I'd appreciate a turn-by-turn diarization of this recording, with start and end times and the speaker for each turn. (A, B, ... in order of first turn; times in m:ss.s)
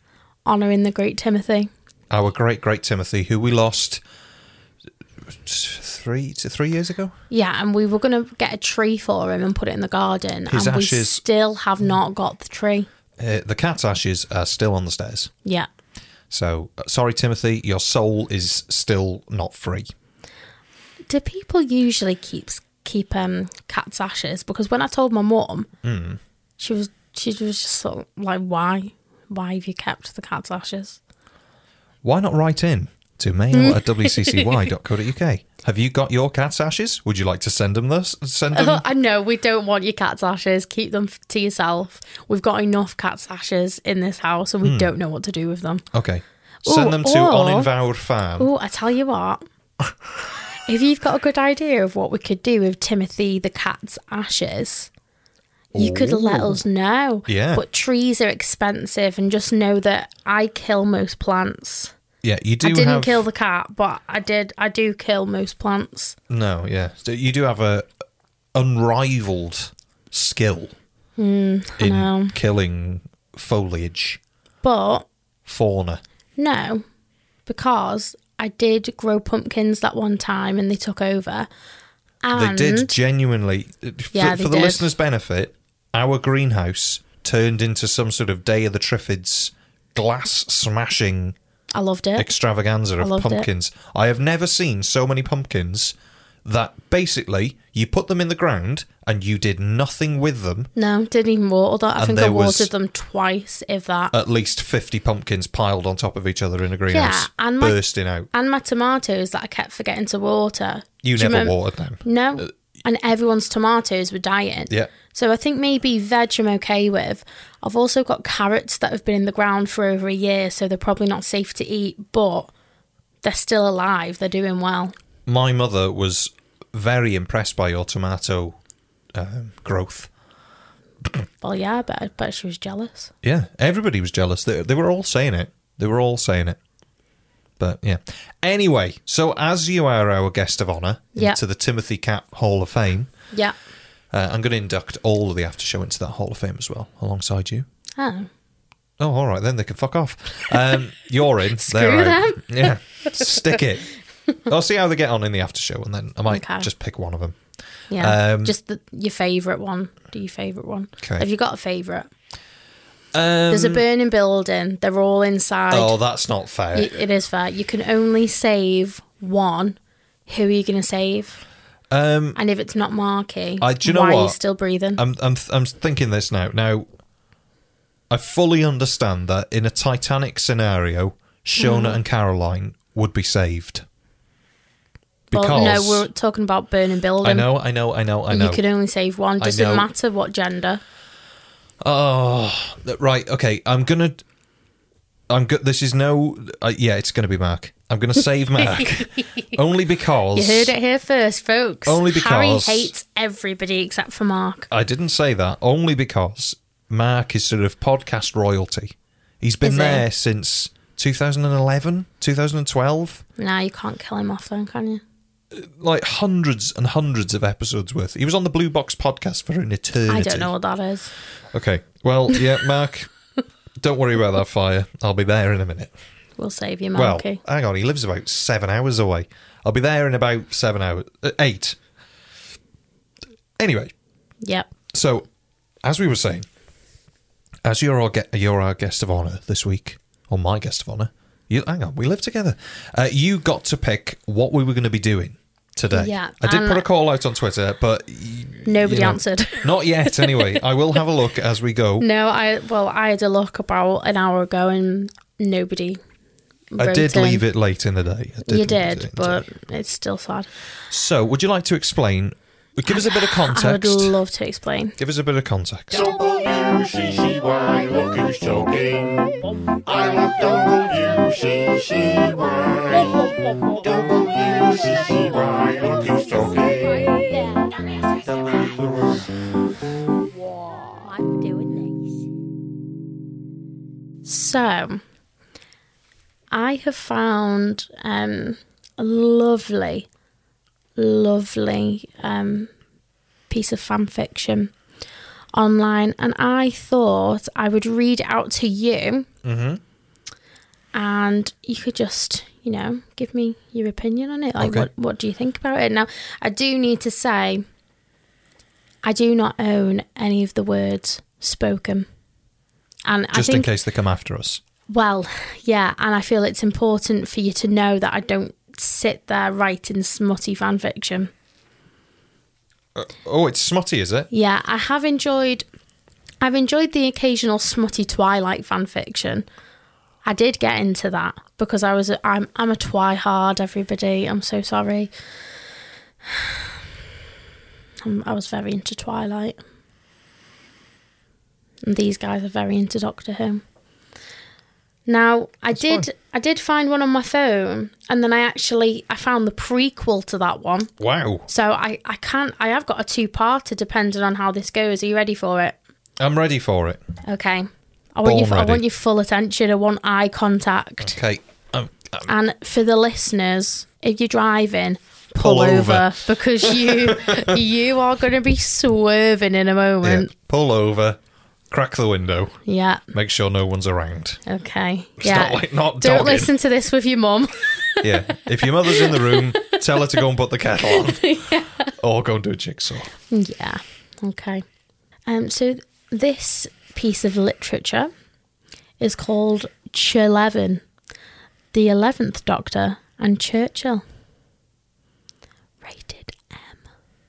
0:00.4-0:01.7 A
0:02.1-0:04.0 B
0:05.4-0:07.1 B
0:07.3-0:12.9 A
0:10.5-0:11.2 B
0:13.2-0:15.3 B
0:16.3-0:19.9 B
0:21.1-0:25.7 A
0:25.8-0:26.2 B
0:26.6-0:31.0 A
0:32.0-0:38.8 B
0:33.5-0:34.7 A
0:38.5-0:45.8 A
0:44.6-0:44.9 B
0:45.9-0:48.5 B
0:46.6-0:47.7 A
0:48.4-0:49.4 A
0:50.6-0:54.9 A
0:55.7-0:56.6 B
0:55.7-1:01.9 A
0:57.3-0:57.6 B
1:02.2-1:03.2 B
1:02.6-1:06.2 A
1:06.3-1:07.9 B
1:08.5-1:10.7 B
1:11.2-1:12.4 A
1:11.8-1:14.2 B
1:14.6-1:15.1 A
1:15.4-1:16.0 B
1:16.4-1:16.8 A
1:17.5-1:21.5 A
1:22.2-1:23.0 A
1:22.3-1:31.4 B
1:24.1-1:24.8 A
1:31.7-1:32.3 A
1:32.2-1:40.7 B
1:33.0-1:33.5 A
1:40.8-1:44.1 A
1:42.0-1:42.7 B
1:44.1-1:48.3 B
1:46.9-1:47.8 A
1:48.3-2:02.5 A
1:51.0-1:52.5 B
2:03.2-2:04.9 A
2:05.3-2:08.6 B
2:09.1-2:10.1 B
2:11.4-2:13.1 A
2:13.2-2:16.6 B
2:17.6-2:23.1 B
2:24.1-2:27.6 B
2:28.0-2:28.3 A
2:29.0-2:33.9 B
2:31.6-2:33.4 A
2:34.4-2:37.4 B
2:36.3-2:36.7 A
2:37.9-2:42.1 A
2:38.0-2:38.5 B
2:43.1-2:43.8 B
2:43.5-2:46.0 A
2:45.7-2:46.9 B
2:46.7-2:51.4 A
2:51.9-2:52.4 B
2:52.4-2:55.0 A
2:53.6-2:54.4 B
2:55.0-2:56.9 B
2:58.1-3:03.8 B
3:01.6-3:02.0 A
3:05.3-3:06.1 B
3:05.3-3:07.5 A
3:07.2-3:08.6 B
3:08.3-3:10.8 A
3:09.4-3:09.9 B
3:11.8-3:14.2 B
3:15.3-3:20.7 B
3:18.6-3:19.0 A
3:20.3-3:24.7 A
3:21.8-3:22.9 B
3:24.7-3:33.2 B
3:29.6-3:30.0 A
3:33.4-3:35.0 A
3:35.5-3:40.5 B
3:40.1-3:41.1 A
3:41.5-3:43.1 B
3:43.8-3:45.9 B
3:46.4-3:47.4 A
3:46.9-3:51.8 B
3:53.6-3:53.9 B
3:54.4-3:54.7 A
3:54.9-3:55.2 B
3:55.8-3:56.4 B
3:57.6-4:12.1 B
4:05.9-4:06.8 A
4:08.6-4:10.6 A
4:12.0-4:16.0 A
4:16.7-4:17.4 A
4:16.8-4:19.4 B
4:18.5-4:20.5 A
4:20.9-4:24.2 B
4:22.9-4:25.0 A
4:25.0-4:26.0 B
4:25.9-4:37.2 C
4:37.0-4:37.8 A
4:38.1-4:39.3 C
4:40.8-4:42.1 A
4:44.2-4:45.0 A
4:46.5-4:50.1 A
4:51.0-4:52.7 A
4:53.5-4:54.7 A
4:55.5-4:59.3 A
4:59.4-4:59.8 B
5:00.9-5:07.6 A
5:04.6-5:04.9 B
5:09.0-5:12.1 A
5:13.0-5:13.7 A
5:13.3-5:14.6 B
5:14.9-5:21.3 A
5:23.0-5:24.3 B
5:24.3-5:25.6 A
5:26.4-5:29.4 A
5:30.2-5:35.1 A
5:36.2-5:36.8 A
5:38.0-5:39.6 A
5:41.8-5:43.6 A
5:45.1-5:50.9 A
5:45.7-5:46.1 B
5:51.0-5:51.5 B
5:51.5-5:55.8 A
5:56.2-5:57.0 B
5:57.2-6:01.2 A
5:58.2-5:58.8 B
6:01.0-6:02.3 B
6:02.3-6:10.3 A
6:05.4-6:07.6 B
6:10.0-6:11.2 B
6:11.7-6:12.6 B
6:12.6-6:13.0 A
6:13.1-6:14.4 B
6:14.4-6:18.1 A
6:15.2-6:16.5 B
6:18.0-6:21.4 B
6:18.6-6:19.7 A
6:20.8-6:21.9 A
6:22.0-6:23.1 B
6:23.3-6:24.6 A
6:25.2-6:28.1 A
6:29.0-6:30.8 A
6:31.7-6:34.0 A
6:35.8-6:36.8 A